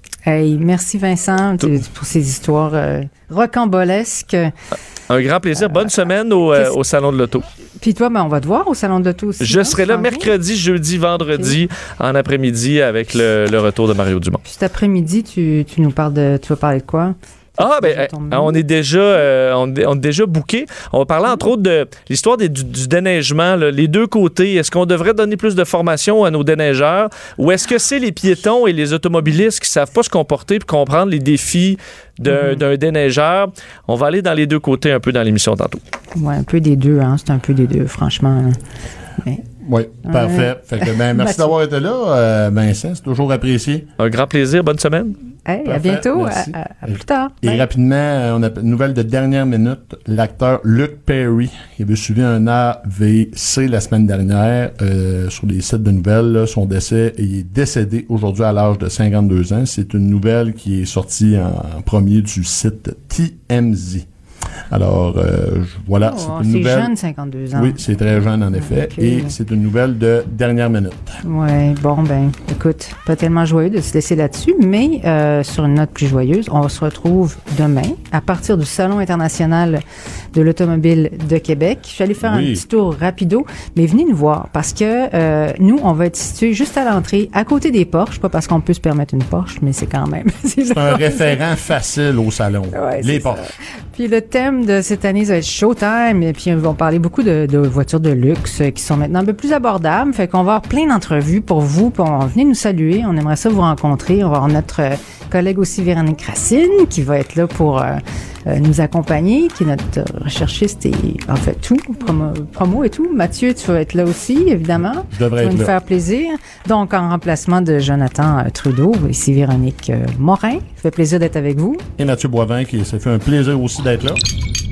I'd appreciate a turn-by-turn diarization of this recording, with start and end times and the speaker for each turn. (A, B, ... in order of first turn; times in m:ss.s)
0:00.2-0:04.5 A
0:05.1-0:07.4 B
0:05.6-0:05.9 A
0:07.8-0:10.3 A
0:09.4-0:14.4 B
0:11.2-0:11.6 A
0:14.4-0:18.6 A
0:17.6-0:35.8 B
0:32.3-0:32.6 A
0:36.2-0:38.6 A
0:39.6-0:43.9 C
0:40.0-0:41.5 A
0:44.0-0:45.2 B
0:45.4-0:47.6 A
0:45.6-1:04.0 C
1:04.7-1:06.9 C
1:06.0-1:07.8 A
1:07.5-1:11.2 C
1:08.5-1:09.3 A
1:11.2-1:19.8 A
1:20.3-1:31.4 A
1:22.2-1:22.6 C
1:30.7-1:33.5 C
1:32.7-2:01.8 A
1:55.1-1:55.7 C
2:02.0-2:04.2 C